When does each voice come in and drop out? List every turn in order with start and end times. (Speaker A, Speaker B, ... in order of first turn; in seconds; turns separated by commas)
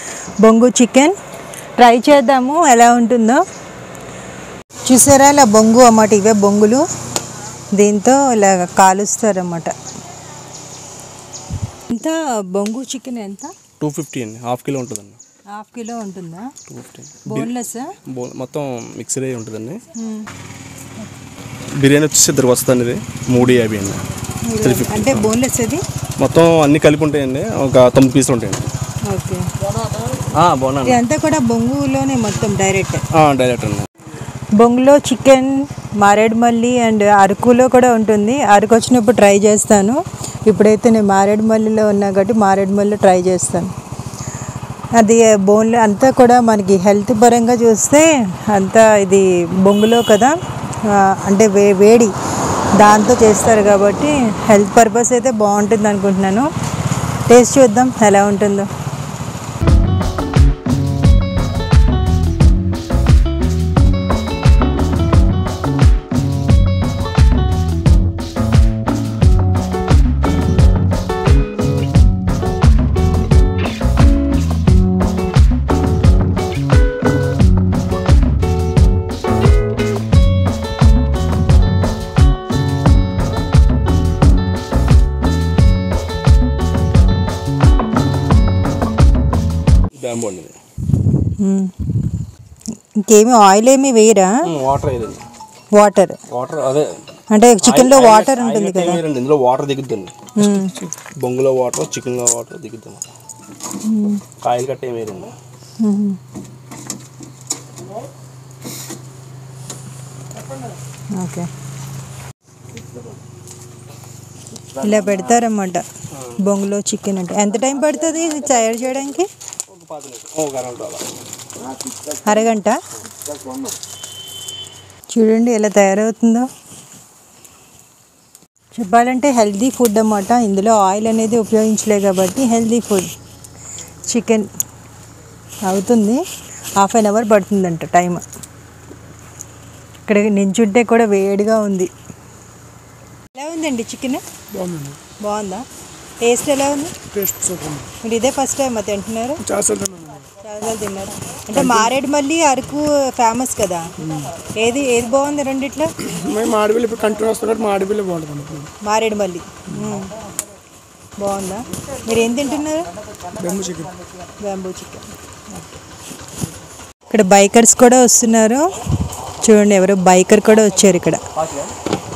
Speaker A: 0.4-1.1, Speaker A: 1.8-3.4, Speaker A: 4.8-6.8, Speaker A: 7.7-9.7, Speaker A: 11.8-13.5, Speaker B: 13.8-15.2, Speaker A: 15.5-16.5, Speaker B: 16.7-17.5, Speaker A: 17.2-17.9, Speaker B: 18.1-19.8, Speaker A: 19.9-20.3, Speaker B: 21.8-24.0, Speaker A: 24.4-25.8, Speaker B: 24.6-25.3, Speaker B: 26.2-28.7, Speaker A: 29.1-29.5, Speaker B: 30.1-31.0, Speaker A: 30.8-33.0, Speaker B: 33.1-33.9, Speaker A: 34.6-43.7, Speaker A: 45.0-52.1, Speaker A: 52.8-56.5, Speaker A: 57.2-58.7, Speaker B: 90.0-90.5, Speaker A: 91.2-92.2, Speaker A: 92.9-94.5, Speaker B: 94.4-95.2, Speaker A: 95.7-96.2, Speaker B: 96.3-97.0, Speaker A: 97.3-99.0, Speaker B: 97.6-103.1, Speaker A: 100.4-100.8, Speaker A: 103.8-104.2, Speaker B: 104.4-105.3, Speaker A: 105.8-106.2, Speaker A: 111.2-111.5, Speaker A: 114.7-115.8, Speaker B: 116.1-116.4, Speaker A: 116.4-119.3, Speaker B: 119.7-121.0, Speaker A: 122.1-122.8, Speaker A: 125.1-126.5, Speaker A: 128.7-133.1, Speaker A: 134.0-134.5, Speaker A: 135.6-136.2, Speaker A: 136.8-138.2, Speaker A: 140.1-141.9, Speaker A: 143.3-144.2, Speaker C: 144.5-145.0, Speaker A: 145.2-145.6, Speaker A: 146.2-146.9, Speaker C: 147.1-147.9, Speaker A: 148.0-149.4, Speaker C: 149.4-150.2, Speaker A: 150.3-153.9, Speaker A: 154.5-155.9, Speaker C: 156.1-158.7, Speaker A: 158.8-160.2, Speaker A: 161.2-162.9, Speaker C: 163.3-163.9, Speaker A: 164.4-165.8, Speaker A: 167.1-168.7, Speaker A: 169.3-171.2, Speaker B: 171.3-171.7